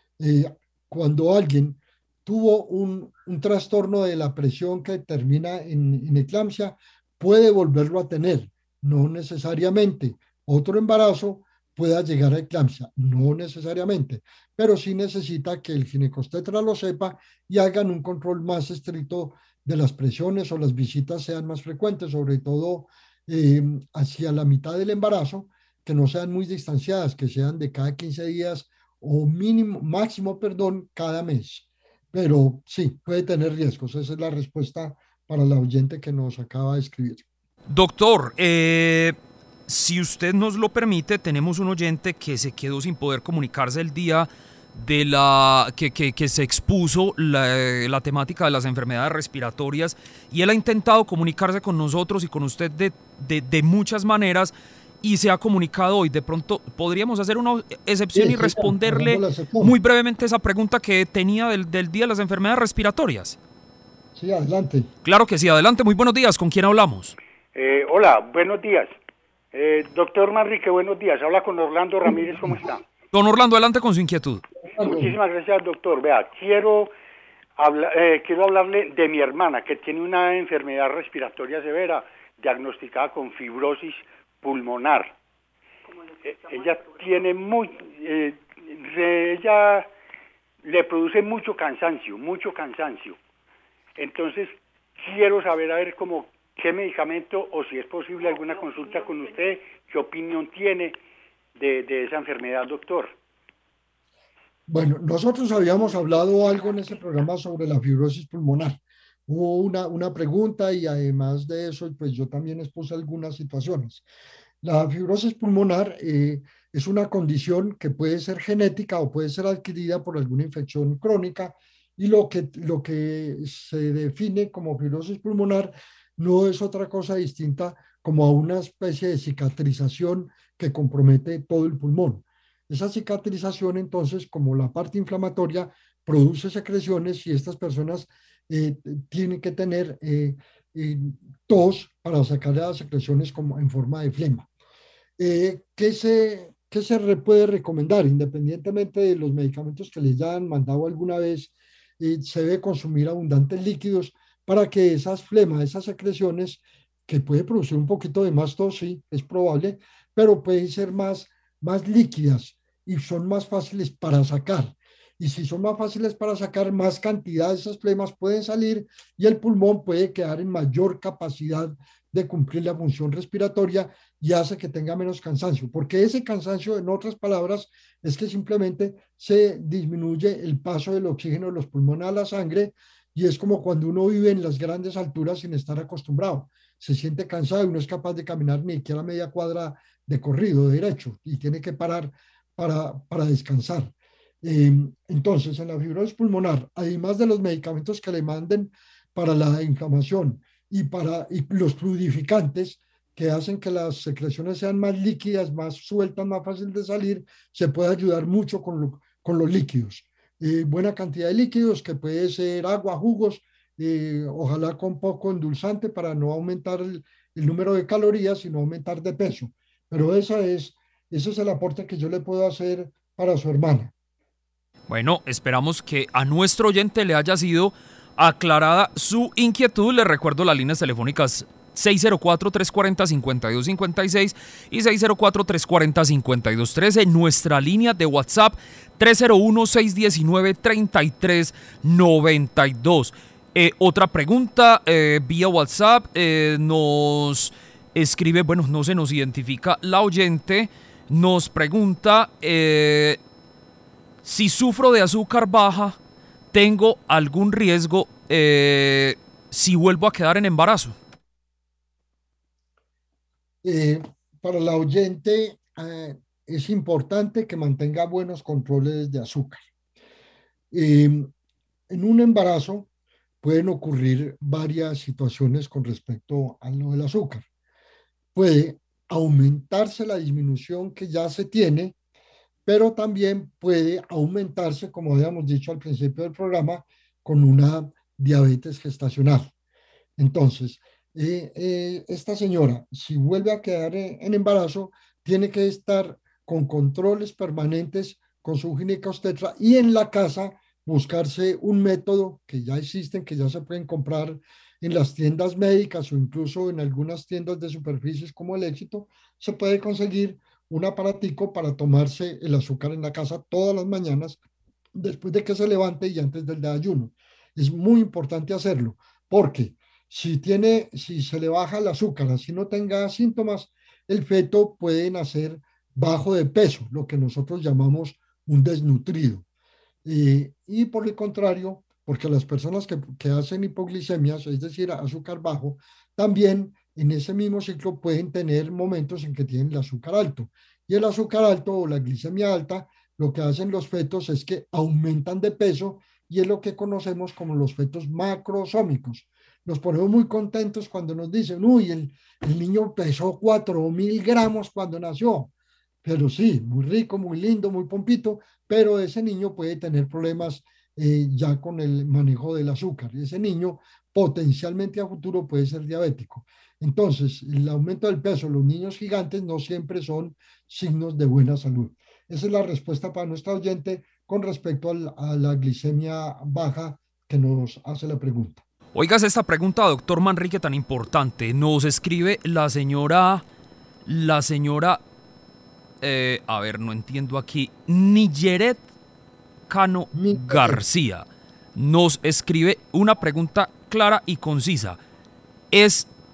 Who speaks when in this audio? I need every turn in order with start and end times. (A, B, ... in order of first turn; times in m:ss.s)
0:00.2-0:37.3 A
0:37.7-0:39.2 B
0:39.7-1:03.4 B
0:58.1-0:59.8 A
1:04.2-1:04.9 A
1:05.0-1:07.2 B
1:07.6-1:08.9 C
1:09.5-1:12.8 C
1:12.1-1:12.5 A
1:13.1-1:14.4 B
1:14.7-1:15.2 A
1:14.8-1:16.9 C
1:17.6-1:25.2 C
1:26.2-1:29.9 C
1:30.6-1:33.2 C
1:34.0-1:41.0 C
1:41.6-1:43.2 C
1:44.7-1:54.0 A
1:54.6-2:24.5 A
2:25.2-3:43.9 A
3:44.9-4:13.2 B
4:14.2-4:16.0 B
4:16.5-4:21.0 B
4:23.6-4:29.6 A
4:30.7-4:31.3 A
4:31.9-4:32.9 A
4:33.4-4:37.5 A
4:38.4-4:42.0 A
4:42.7-4:49.5 A
4:50.2-5:14.4 A
5:15.0-5:29.4 A
5:30.0-5:55.5 A
5:56.0-6:18.6 A
6:19.0-6:23.4 B
6:24.1-6:25.0 B
6:26.0-6:28.8 B
6:29.7-6:35.0 B
6:30.1-6:30.8 A
6:35.7-6:36.1 B